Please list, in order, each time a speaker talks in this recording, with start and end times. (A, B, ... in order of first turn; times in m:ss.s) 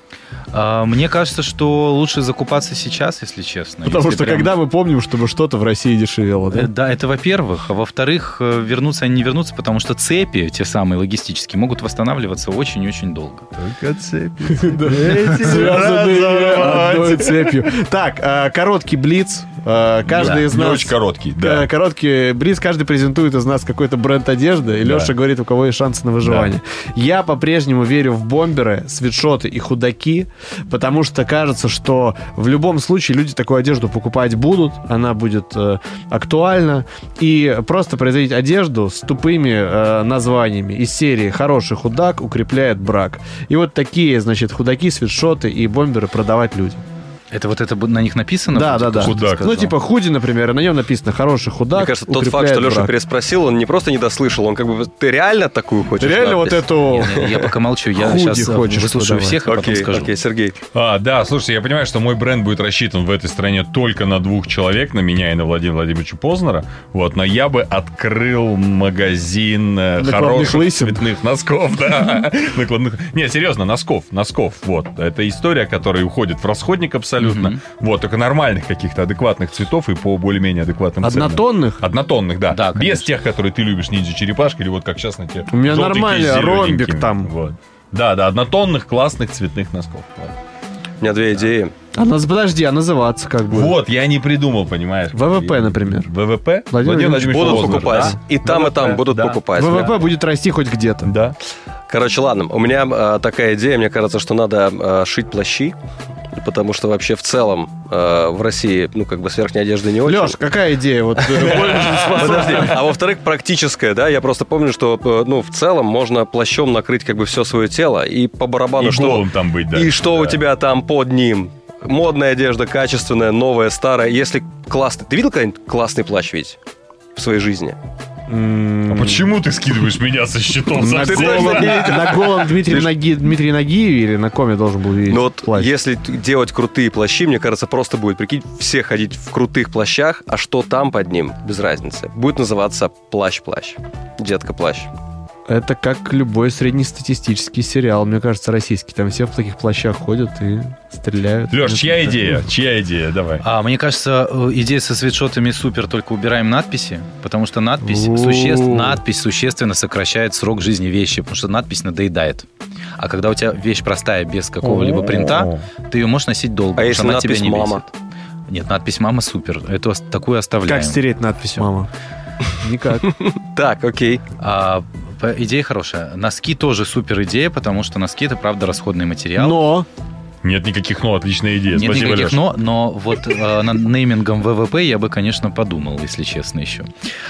0:00.5-0:04.5 A
0:03.8-0:06.7 B
0:06.5-0:13.5 A
0:13.6-0:17.7 C
0:14.6-0:46.8 B
0:20.1-0:21.7 C
0:20.1-0:20.5 A
0:24.8-0:25.1 C
0:26.2-0:26.5 C
0:47.3-0:49.8 A
0:48.5-0:52.9 B
0:49.0-0:49.4 C
0:51.7-0:57.5 D
0:56.0-0:59.5 B
0:56.9-1:00.1 A
0:59.4-1:00.6 D
1:00.7-1:30.4 C
1:10.0-1:11.0 B
1:17.2-1:17.6 A
1:21.0-1:21.8 B
1:22.5-1:23.1 A
1:25.5-1:27.3 B
1:31.0-1:31.7 D
1:31.9-1:33.8 B
1:33.5-1:39.9 C
1:35.1-1:36.1 B
1:36.7-1:38.2 B
1:37.2-1:40.1 D
1:39.5-1:41.1 B
1:41.0-1:41.4 C
1:41.9-1:45.8 D
1:46.3-1:50.4 D
1:50.0-1:52.8 B
1:51.2-2:06.6 D
1:51.4-1:52.8 C
1:58.8-2:00.4 C
2:07.1-2:07.8 D
2:08.3-2:09.3 B
2:08.9-2:12.2 C
2:10.7-2:15.7 B
2:10.9-2:13.0 D
2:15.1-2:24.9 D
2:25.5-2:32.4 B
2:31.5-2:33.4 C
2:33.4-2:42.5 A
2:37.8-2:39.0 B
2:43.0-2:47.9 A
2:44.6-2:45.6 C
2:46.8-2:47.8 D
2:48.5-2:51.0 A
2:50.6-2:51.9 B
2:52.6-2:53.1 B
2:53.0-2:54.2 D
2:54.4-2:59.6 A
2:59.4-2:59.9 B
3:00.4-3:02.4 C
3:01.7-3:06.9 A